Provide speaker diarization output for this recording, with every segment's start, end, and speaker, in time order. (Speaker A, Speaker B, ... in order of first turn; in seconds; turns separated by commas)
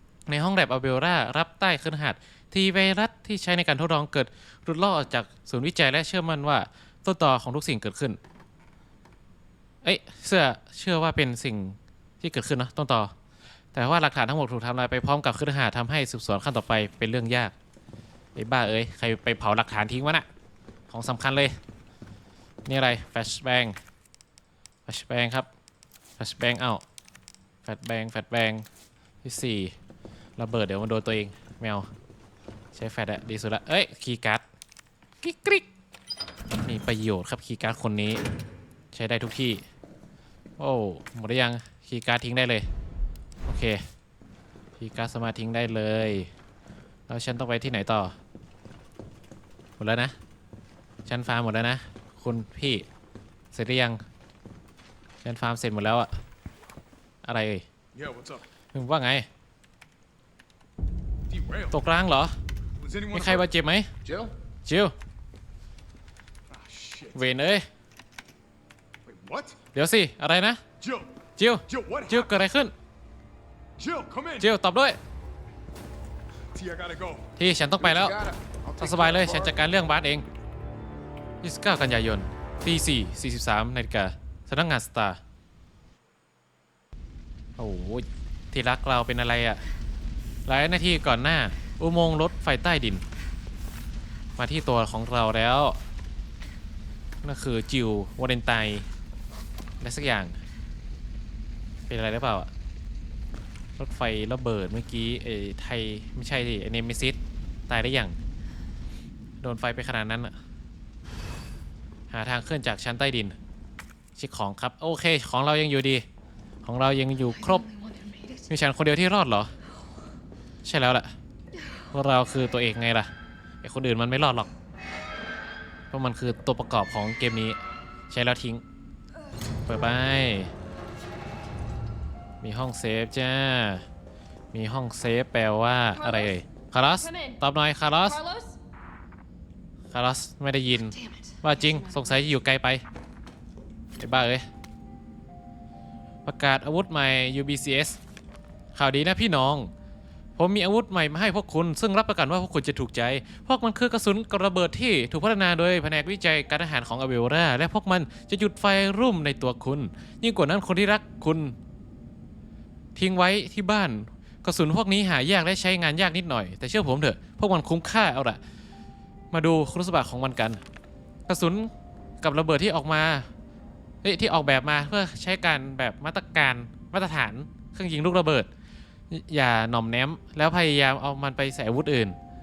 Speaker A: 0.3-8.2, Speaker A: 9.8-13.1, Speaker A: 13.7-17.5, Speaker A: 18.3-20.3, Speaker A: 20.9-21.6, Speaker A: 22.6-23.8, Speaker A: 24.9-25.5, Speaker A: 26.2-26.8, Speaker A: 27.6-28.6, Speaker A: 29.2-29.7, Speaker A: 30.4-31.9, Speaker A: 32.7-34.4, Speaker A: 35.2-35.6, Speaker A: 36.6-38.2, Speaker A: 38.9-39.6, Speaker A: 40.6-42.7, Speaker A: 43.5-43.8, Speaker A: 44.8-46.3, Speaker A: 47.1-48.1, Speaker A: 49.8-50.1, Speaker A: 51.0-52.9, Speaker A: 53.5-54.0, Speaker A: 55.2-56.1, Speaker A: 57.2-57.6, Speaker B: 57.9-58.4, Speaker A: 58.7-59.3, Speaker B: 61.3-61.8, Speaker A: 61.7-62.3, Speaker B: 62.8-63.5, Speaker A: 63.1-63.9, Speaker B: 64.0-64.3, Speaker A: 64.7-64.9, Speaker B: 66.5-67.3, Speaker A: 67.1-67.7, Speaker B: 69.0-69.6, Speaker A: 69.7-70.6, Speaker B: 70.8-71.1, Speaker A: 71.4-72.7, Speaker B: 71.7-72.3, Speaker B: 73.8-74.5, Speaker A: 74.4-75.0, Speaker B: 76.5-79.6, Speaker A: 77.4-78.2, Speaker A: 78.8-80.2, Speaker A: 81.4-85.2, Speaker A: 87.6-89.6, Speaker A: 90.5-93.0, Speaker A: 94.4-95.8, Speaker A: 97.2-98.9, Speaker A: 99.8-100.4, Speaker A: 101.9-102.5, Speaker A: 103.8-107.2, Speaker A: 107.7-108.2, Speaker A: 109.4-110.3, Speaker A: 112.1-113.3, Speaker A: 114.2-116.0, Speaker A: 116.6-117.7, Speaker C: 117.7-118.5, Speaker A: 118.5-119.5, Speaker A: 120.6-121.1, Speaker A: 121.9-123.1, Speaker A: 123.6-124.5, Speaker A: 125.9-127.6, Speaker A: 128.1-128.6, Speaker A: 129.6-130.5, Speaker A: 132.4-133.8, Speaker A: 134.5-138.2, Speaker C: 136.0-136.3, Speaker C: 137.0-137.4, Speaker C: 138.1-138.6, Speaker A: 139.9-142.8, Speaker C: 141.0-142.0, Speaker A: 144.0-144.4, Speaker A: 146.2-148.0, Speaker A: 148.7-149.7, Speaker A: 150.4-161.6, Speaker A: 162.9-168.4, Speaker A: 169.3-170.6, Speaker A: 171.3-173.3, Speaker A: 174.0-178.5, Speaker A: 179.1-182.2